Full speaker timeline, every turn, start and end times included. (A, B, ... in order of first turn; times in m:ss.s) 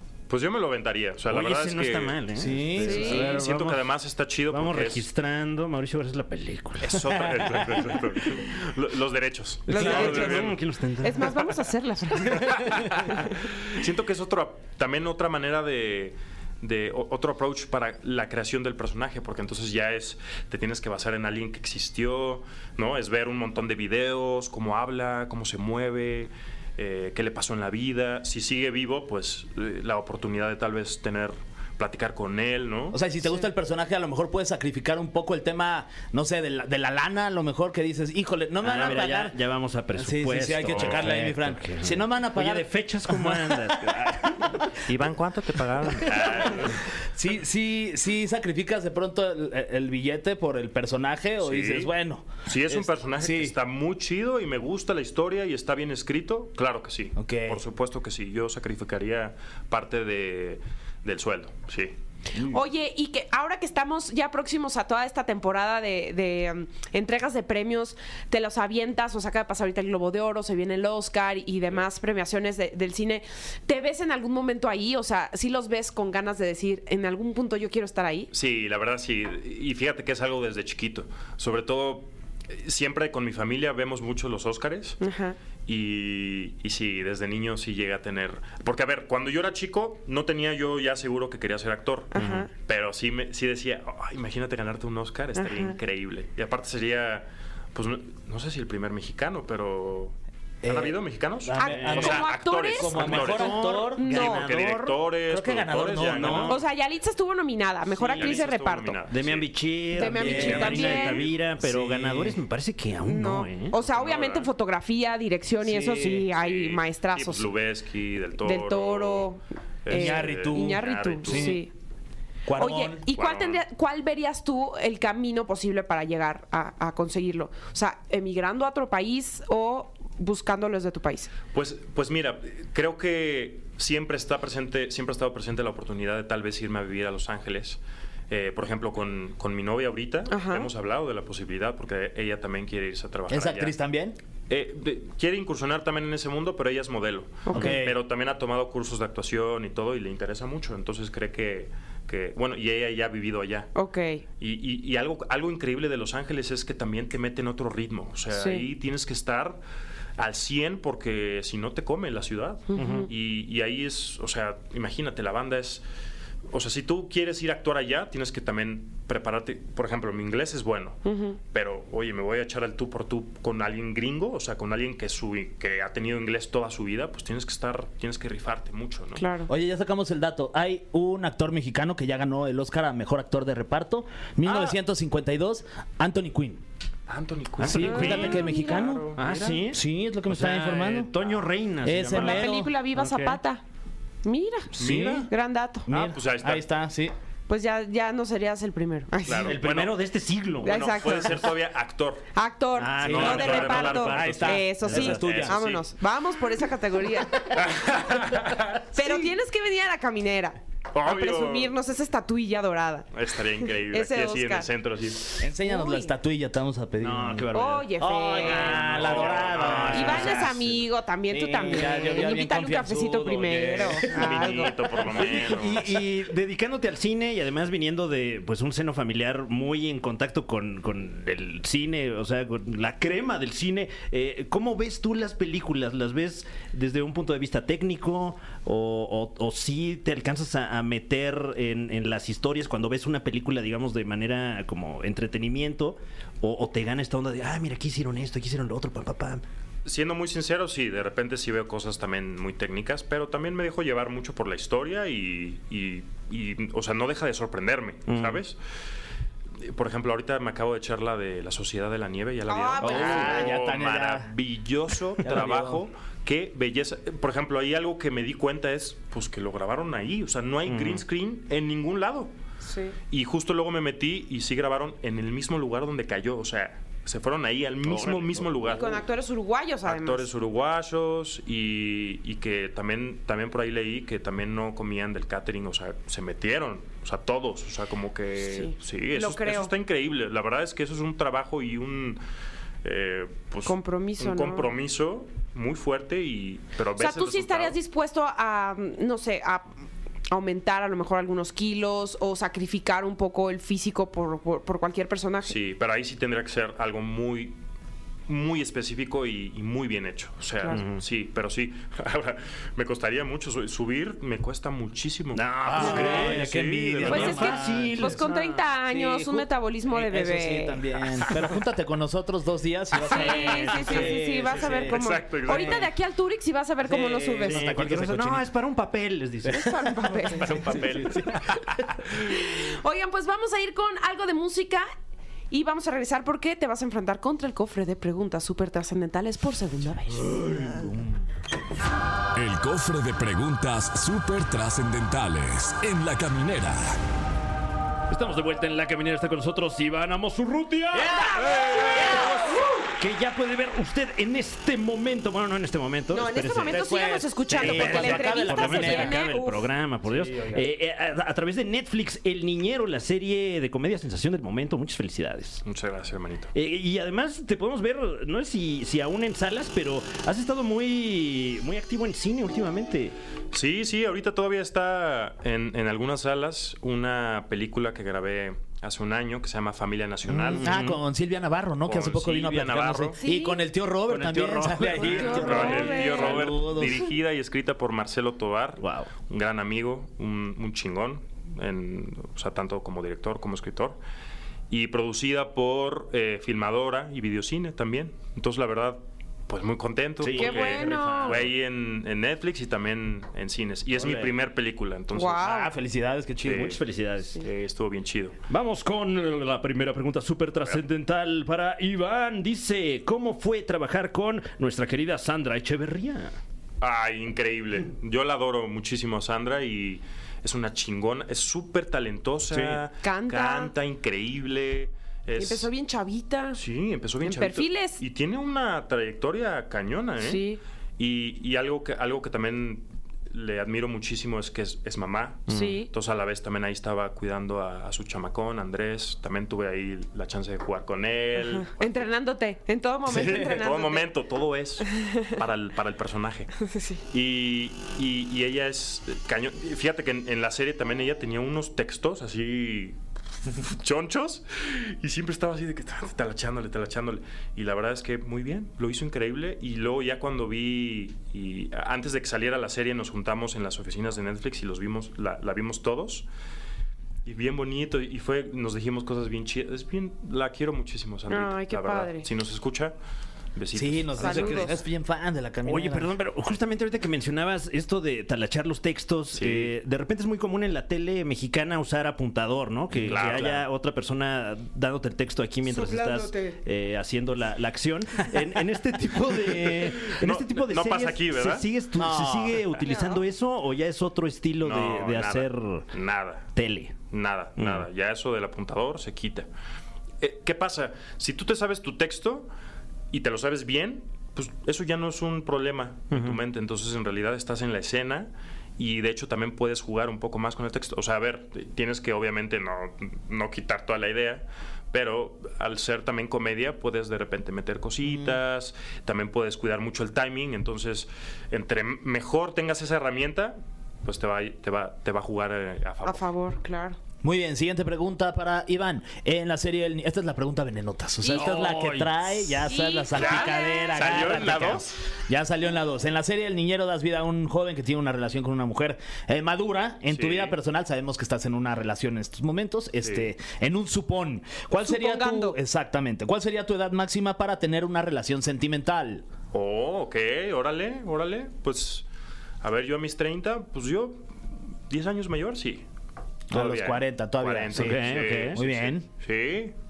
0:00.3-0:02.2 A
0:01.3-0:03.9 B
0:02.3-0:03.2 C
0:02.8-0:03.4 D
0:02.8-0:05.0 A
0:04.5-0:07.2 B
0:06.8-0:10.6 A
0:07.4-0:07.8 C
0:09.7-0:11.5 B
0:09.7-0:13.3 D
0:12.3-0:33.0 A
0:32.9-0:39.4 C
0:38.6-0:46.6 B
0:39.9-0:44.5 C
0:40.7-0:41.0 A
0:44.9-0:46.8 A
0:46.1-0:53.5 C
0:51.4-0:51.9 A
0:52.4-1:01.9 A
0:57.2-0:57.6 C
1:02.3-1:02.6 C
1:02.4-1:18.3 D
1:18.3-1:25.0 A
1:25.0-1:25.4 D
1:25.6-1:46.6 A
1:32.1-1:32.5 D
1:32.2-1:32.4 B
1:35.3-1:35.8 D
1:40.6-1:44.2 C
1:41.5-1:43.2 D
1:41.6-1:42.1 B
1:42.9-1:45.0 B
1:43.9-1:44.4 D
1:45.2-1:46.6 C
1:46.0-1:46.6 B
1:46.5-1:49.0 D
1:47.9-1:49.5 A
1:49.1-1:53.7 B
1:49.9-1:51.3 D
1:50.1-1:52.4 C
1:50.3-1:52.0 A
1:53.0-1:57.5 D
1:53.8-1:54.5 A
1:55.6-1:56.2 C
1:56.0-1:59.3 A
1:58.4-2:01.7 D
1:59.8-2:01.6 A
1:59.9-2:01.6 C
2:02.4-2:03.1 C
2:02.6-2:11.3 D
2:03.1-2:03.6 A
2:11.5-2:23.7 A
2:20.3-2:20.7 D
2:23.3-2:24.2 C
2:24.5-2:33.7 A
2:27.4-2:27.8 D
2:27.5-2:28.0 C
2:33.7-2:34.2 D
2:34.4-2:39.6 A
2:38.3-2:38.6 D
2:40.2-2:45.8 A
2:42.7-2:43.1 D
2:42.8-2:43.1 B
2:46.5-2:59.2 A
2:51.0-2:51.4 D
2:59.2-2:59.5 D
2:59.5-3:06.6 C
3:07.1-3:09.6 A
3:07.6-3:08.4 B
3:07.6-3:11.1 C
3:07.7-3:09.0 D
3:09.2-3:13.4 B
3:11.8-3:12.7 C
3:12.1-3:13.6 D
3:14.2-3:15.9 D
3:14.7-3:15.3 C
3:14.8-3:15.3 A
3:15.9-3:17.1 C
3:15.9-3:16.6 A
3:17.5-3:19.6 D
3:19.2-3:20.0 A
3:19.4-3:20.8 B
3:20.6-3:22.3 A
3:20.6-3:21.5 D
3:22.3-3:27.6 D
3:22.8-3:25.3 B
3:23.0-3:25.8 A
3:23.0-3:25.6 C
3:27.5-3:28.8 A
3:28.9-3:33.1 D
3:30.9-3:31.7 A
3:33.1-3:35.4 A
3:33.6-3:34.7 D
3:35.4-3:40.6 C
3:35.6-3:36.1 D
3:37.0-3:40.7 B
3:37.5-3:38.9 D
3:38.9-3:40.5 A
3:39.9-3:44.8 D
3:41.3-3:45.4 C
3:41.7-3:42.3 B
3:44.0-3:45.9 A
3:45.0-4:09.4 B
4:09.8-4:18.6 A
4:18.1-4:18.4 B
4:19.6-4:32.3 A
4:22.5-4:23.6 D
4:22.8-4:24.3 C
4:25.2-4:25.8 C
4:30.6-4:31.0 B
4:32.6-4:32.9 D
4:33.1-4:39.1 A
4:37.8-4:38.5 B
4:38.6-4:40.3 D
4:39.8-4:52.2 A
4:48.4-4:49.7 D
4:52.8-4:57.8 A
4:53.6-4:54.7 D
4:57.0-4:59.7 D
5:00.3-5:05.5 D
5:05.4-5:07.6 A
5:08.3-5:17.6 A
5:10.7-5:11.0 B
5:15.3-5:18.5 B
5:15.6-5:25.9 C
5:17.0-5:20.8 D
5:23.0-5:27.7 D
5:23.4-5:24.1 B
5:24.9-5:25.9 A
5:26.8-5:28.5 C
5:27.4-5:29.7 B
5:29.4-5:31.4 C
5:29.5-5:30.6 D
5:30.4-5:32.1 A
5:32.2-5:34.8 D
5:35.5-5:40.4 D
5:40.3-5:40.9 B
5:40.5-5:41.0 C
5:42.3-5:47.0 E
5:48.1-5:56.8 B
5:51.0-5:52.8 D
5:51.2-5:52.4 C
5:56.1-5:59.6 D
5:56.7-5:59.4 C
5:57.5-6:05.6 B
6:00.0-6:00.6 C
6:05.6-6:06.5 A
6:06.5-6:13.1 B
6:13.5-6:20.7 A
6:20.3-6:21.0 B
6:20.6-6:27.1 C
6:21.8-6:23.2 A
6:23.2-6:23.6 D
6:24.1-6:26.1 B
6:25.0-6:26.5 D
6:25.3-6:34.0 A
6:28.8-6:29.1 B
6:34.7-6:45.5 A
6:40.2-6:41.5 B
6:40.4-6:41.4 D
6:44.0-6:44.3 C
6:44.0-6:44.3 B
6:45.1-6:45.7 D
6:45.3-6:46.8 C
6:46.4-6:46.8 A
6:46.4-6:47.4 B
6:47.4-6:48.4 A
6:48.5-6:56.4 B
6:56.8-7:05.7 A
7:02.5-7:02.8 B
7:03.0-7:03.7 D
7:05.4-7:06.6 D
7:06.5-7:10.4 A
7:07.2-7:08.0 D
7:10.2-7:10.6 D
7:11.0-7:22.0 A
7:15.5-7:15.8 B
7:15.5-7:15.9 D
7:21.4-7:24.1 D
7:23.1-7:46.3 A
7:24.9-7:25.3 D
7:26.6-7:27.0 D
7:47.2-7:52.9 A
7:51.3-7:52.3 D
7:53.5-7:54.7 A
7:53.7-7:56.1 C
7:54.2-7:54.8 D
7:55.6-8:15.8 B
7:59.3-7:59.7 A
8:02.9-8:03.6 A
8:05.6-8:06.6 D
8:10.1-8:11.6 A
8:11.9-8:12.8 C
8:12.8-8:13.2 D
8:14.6-8:16.5 A
8:16.5-8:17.0 B
8:17.1-8:19.5 A
8:17.6-8:17.9 B
8:20.2-8:22.5 A
8:23.1-8:46.3 A
8:26.1-8:26.4 B
8:38.0-8:38.4 C
8:46.0-8:47.0 D
8:47.2-9:09.2 C
8:51.2-8:51.6 D
8:51.3-8:52.5 B
8:52.6-8:54.3 D
8:53.1-8:55.0 A
9:00.1-9:00.5 A
9:03.0-9:03.3 A
9:04.8-9:05.6 D
9:09.5-9:12.0 A
9:12.6-9:14.2 A
9:14.9-9:15.8 A
9:16.5-9:19.1 C
9:16.5-9:19.7 A
9:17.7-9:18.6 B